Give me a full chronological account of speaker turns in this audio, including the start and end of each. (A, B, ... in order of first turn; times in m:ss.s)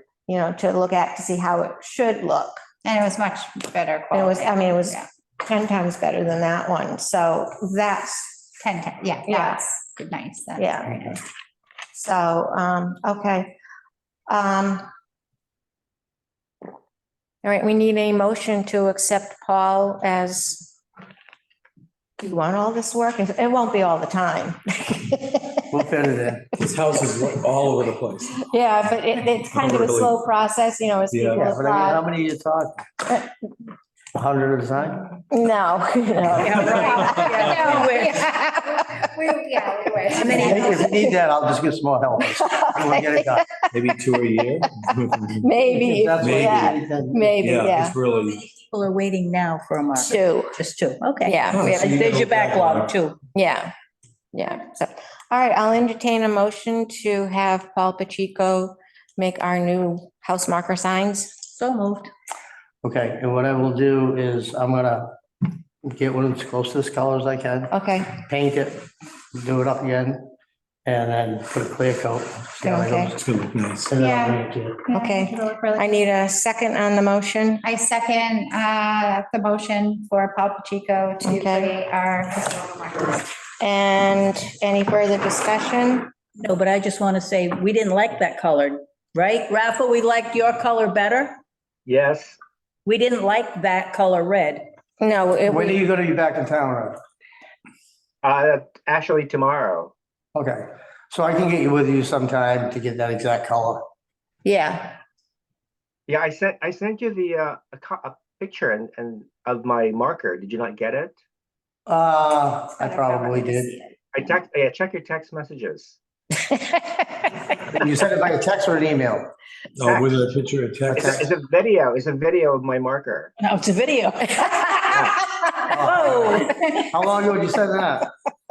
0:00.3-0:02.6 A
0:02.8-0:05.1 B
0:04.1-0:08.2 A
0:08.4-0:11.2 B
0:09.3-0:09.6 A
0:10.6-0:11.2 A
0:11.9-0:13.5 A
0:14.3-0:14.9 A
0:17.4-0:20.7 A
0:22.2-0:25.6 A
0:25.7-0:26.5 C
0:26.6-0:28.4 D
0:28.4-0:32.0 A
0:29.5-0:30.1 D
0:31.1-0:31.5 D
0:31.3-0:32.8 C
0:34.2-0:35.2 C
0:35.3-0:37.9 A
0:36.4-0:37.7 D
0:36.4-0:38.3 E
0:36.8-0:40.9 B
0:40.1-0:41.1 A
0:40.2-0:40.8 E
0:40.3-0:43.5 C
0:42.2-0:43.9 A
0:43.7-0:45.5 D
0:45.4-0:48.0 A
0:45.7-0:47.4 C
0:46.2-0:46.7 D
0:47.4-0:48.4 D
0:48.4-0:53.2 E
0:49.9-0:50.6 A
0:51.2-0:52.0 A
0:51.5-0:52.9 D
0:53.4-0:53.7 A
0:54.3-1:01.3 A
1:01.6-1:02.1 E
1:02.8-1:05.1 C
1:05.8-1:10.3 C
1:07.7-1:08.1 A
1:10.8-1:13.2 C
1:12.6-1:13.1 A
1:13.1-1:13.9 D
1:13.9-1:14.8 C
1:14.0-1:16.0 B
1:14.9-1:17.6 A
1:17.6-1:23.3 B
1:21.2-1:21.7 A
1:23.6-1:26.1 A
1:26.4-1:31.4 E
1:31.9-1:32.4 F
1:32.8-1:34.7 E
1:35.0-1:35.8 A
1:35.5-1:37.0 C
1:38.2-1:39.9 F
1:40.4-1:43.9 C
1:44.4-1:45.0 A
1:46.1-1:51.2 F
1:51.9-1:53.8 C
1:53.0-1:53.7 A
1:54.1-1:56.0 F
1:57.8-1:59.3 C
1:59.8-2:01.2 D
2:00.9-2:03.3 F
2:00.9-2:01.2 C
2:03.4-2:04.9 E
2:04.6-2:05.0 A
2:04.9-2:05.2 F
2:05.7-2:08.1 C
2:05.7-2:06.6 E
2:06.0-2:06.4 F